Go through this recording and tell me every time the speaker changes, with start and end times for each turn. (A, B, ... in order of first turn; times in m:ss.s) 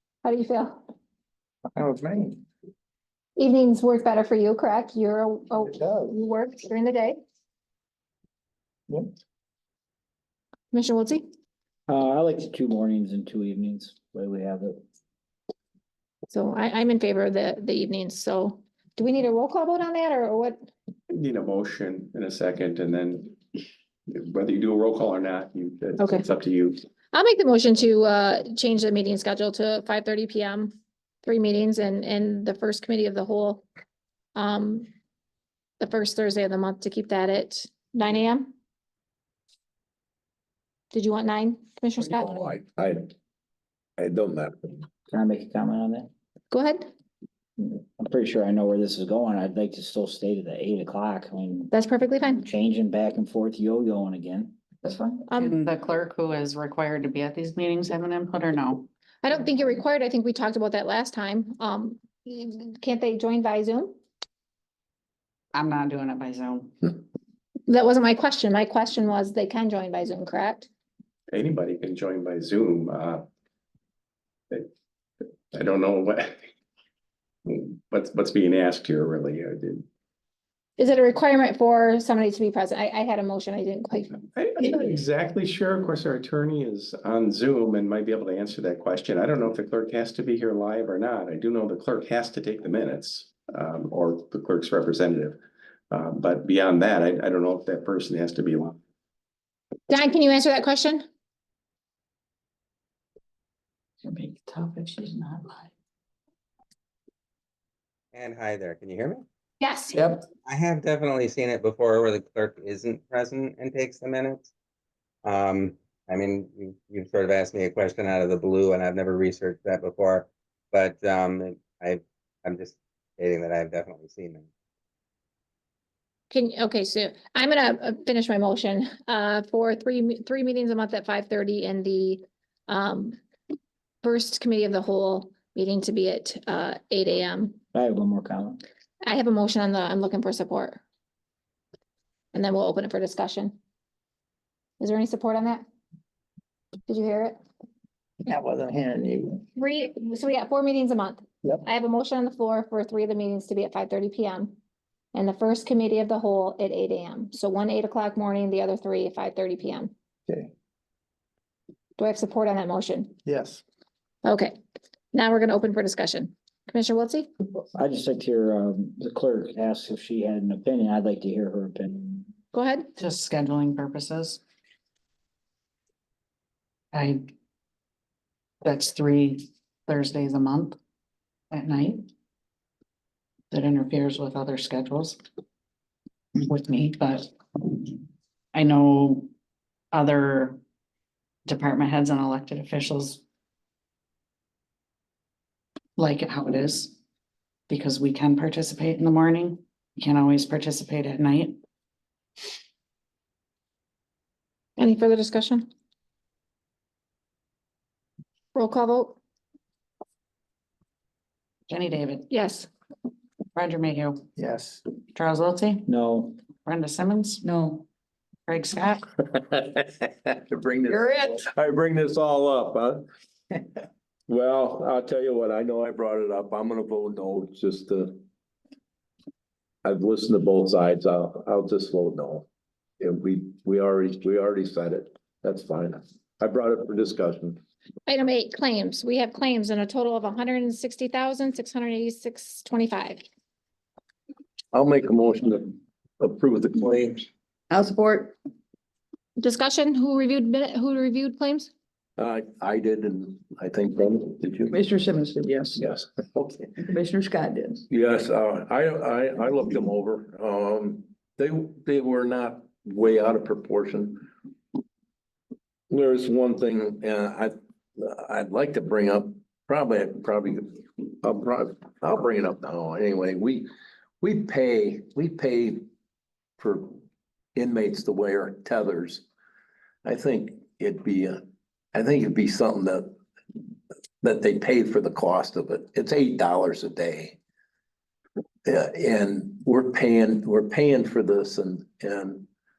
0:00.2-0:00.8 A
0:01.7-0:02.4 B
0:03.4-0:07.2 A
0:05.6-0:06.1 B
0:10.7-0:11.2 A
0:11.9-0:14.8 C
0:16.3-0:20.6 A
0:21.1-0:23.4 D
0:24.1-0:26.8 D
0:26.0-0:26.2 A
0:27.1-0:30.7 A
0:31.2-0:33.6 A
0:34.3-0:34.9 A
0:35.8-0:38.5 A
0:40.9-0:42.5 A
0:42.0-0:43.1 E
0:44.0-0:44.8 E
0:45.1-0:46.1 C
0:46.5-0:46.9 A
0:48.0-0:51.7 C
0:51.7-0:52.4 A
0:52.4-0:54.5 C
0:54.8-0:55.3 F
0:55.3-0:55.6 A
0:55.4-0:58.9 G
0:59.2-1:03.9 A
1:05.5-1:06.9 G
1:07.7-1:10.7 A
1:11.3-1:13.2 D
1:15.5-1:16.3 D
1:17.4-1:19.8 D
1:20.8-1:24.1 A
1:24.3-1:35.4 D
1:35.9-1:38.8 D
1:39.9-1:41.0 A
1:44.0-1:45.3 F
1:48.1-1:49.2 H
1:49.6-1:50.0 A
1:49.9-1:50.2 F
1:50.4-1:54.5 H
1:55.2-2:04.5 H
2:06.3-2:13.2 A
2:14.0-2:17.6 A
2:17.7-2:18.6 C
2:19.0-2:20.8 A
2:22.3-2:23.6 A
2:24.8-2:25.6 A
2:26.9-2:27.4 A
2:28.2-2:29.4 B
2:29.6-2:34.6 A
2:35.1-2:39.9 A
2:42.0-2:43.1 A
2:43.2-2:43.6 B
2:44.2-2:44.5 A
2:45.1-2:47.3 A
2:47.7-2:52.3 C
2:52.5-2:52.9 A
2:53.0-2:54.4 G
2:56.9-2:57.2 G
2:58.6-3:00.8 G
3:01.5-3:02.1 G
3:03.5-3:05.2 G
3:06.4-3:07.9 G
3:08.5-3:09.3 G
3:09.9-3:10.6 G
3:11.4-3:13.2 G
3:16.0-3:16.9 G
3:17.7-3:21.6 G
3:24.8-3:25.7 A
3:28.5-3:29.2 A
3:31.7-3:32.3 G
3:32.3-3:32.7 A
3:33.5-3:34.2 G
3:34.4-3:34.8 B
3:35.1-3:35.8 G
3:35.9-3:36.4 C
3:36.6-3:37.4 G
3:37.4-3:37.8 F
3:38.5-3:39.0 G
3:39.3-3:43.0 E
3:40.9-3:41.4 F
3:44.3-3:48.2 E
3:49.8-3:52.5 E
3:53.0-3:57.6 E
3:58.1-4:03.2 A
4:04.7-4:07.3 E
4:07.7-4:08.4 F
4:09.4-4:11.7 A
4:12.2-4:14.8 E
4:14.7-4:15.8 F
4:15.8-4:16.1 E
4:16.7-4:17.8 F
4:17.9-4:24.3 E
4:25.9-4:33.7 E
4:34.2-4:35.8 E
4:36.6-4:37.0 E
4:37.5-4:39.2 E
4:40.0-4:41.4 E
4:41.9-4:43.1 E
4:44.2-4:47.4 E
4:48.6-4:52.5 E